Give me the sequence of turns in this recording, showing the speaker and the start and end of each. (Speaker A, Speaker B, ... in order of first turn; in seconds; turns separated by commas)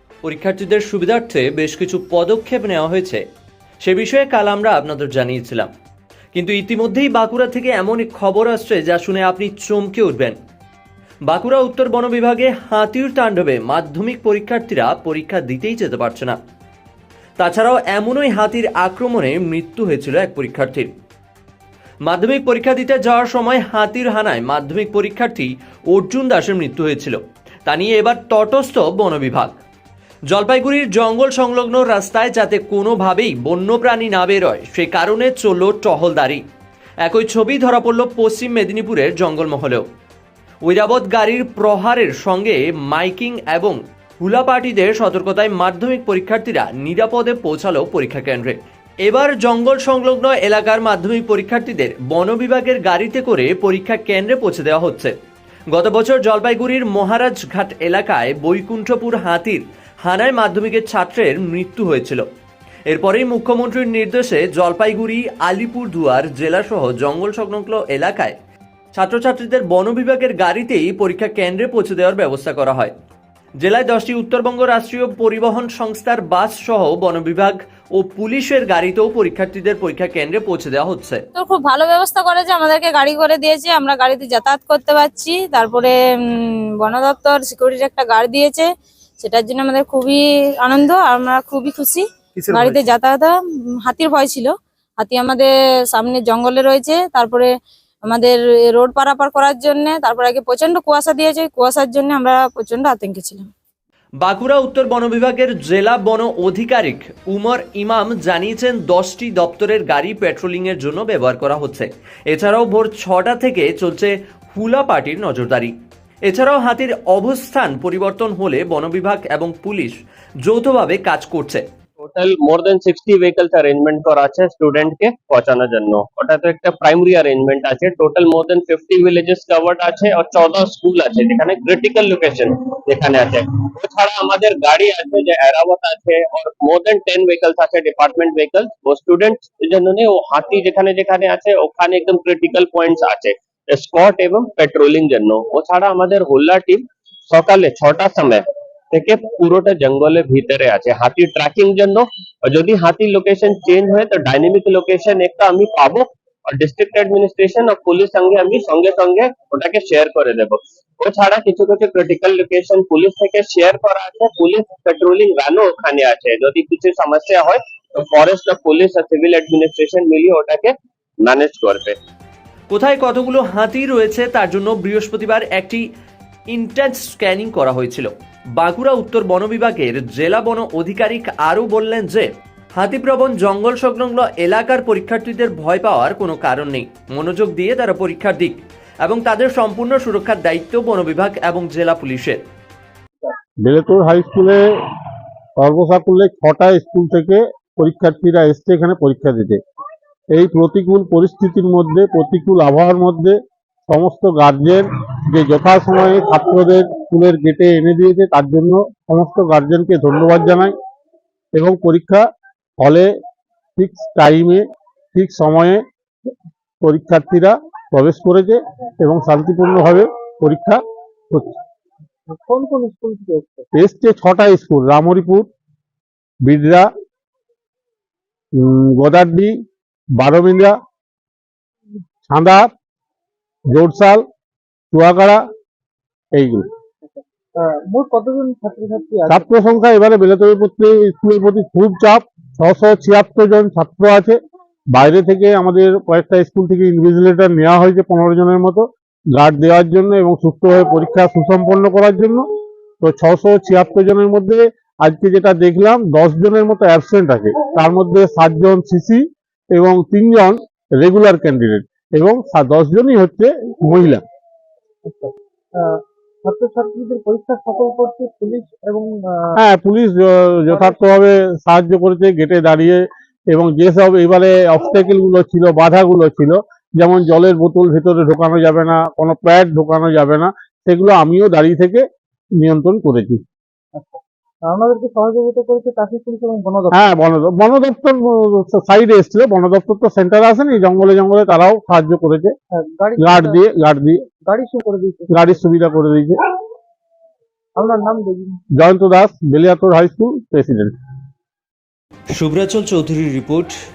Speaker A: 0.2-3.2, Speaker A: 3.8-5.7, Speaker A: 6.3-10.4, Speaker A: 11.2-16.4, Speaker A: 17.4-20.9, Speaker A: 22.0-29.6, Speaker A: 30.3-36.4, Speaker A: 37.0-39.8, Speaker A: 40.6-55.1, Speaker A: 55.7-62.2, Speaker A: 62.9-68.3, Speaker A: 68.9-72.9, Speaker A: 73.6-81.2, Speaker B: 81.3-88.7, Speaker B: 89.2-93.3, Speaker B: 93.8-97.5, Speaker B: 98.1-103.5, Speaker A: 104.2-115.7, Speaker A: 116.2-121.7, Speaker C: 122.0-172.0, Speaker A: 172.7-175.9, Speaker A: 176.5-192.4, Speaker D: 193.6-194.6, Speaker D: 195.6-199.6, Speaker D: 200.3-210.7, Speaker D: 211.6-212.2, Speaker D: 212.8-213.1, Speaker D: 213.8-215.8, Speaker D: 216.8-220.8, Speaker D: 221.3-221.6, Speaker E: 222.3-223.7, Speaker D: 223.8-225.5, Speaker D: 226.4-226.9, Speaker D: 228.6-229.5, Speaker D: 230.2-230.8, Speaker D: 232.3-232.7, Speaker D: 233.7-234.2, Speaker D: 234.9-235.4, Speaker D: 236.3-236.7, Speaker E: 237.6-239.4, Speaker D: 239.3-244.4, Speaker D: 244.9-252.4, Speaker D: 253.0-264.2, Speaker E: 265.1-269.5, Speaker D: 269.6-282.0, Speaker D: 282.6-283.4, Speaker E: 283.9-286.9, Speaker D: 286.9-292.5, Speaker E: 292.7-293.5, Speaker D: 293.2-294.2, Speaker E: 294.4-295.3, Speaker D: 295.3-296.4, Speaker E: 297.8-298.6, Speaker D: 298.8-300.9, Speaker A: 302.3-303.7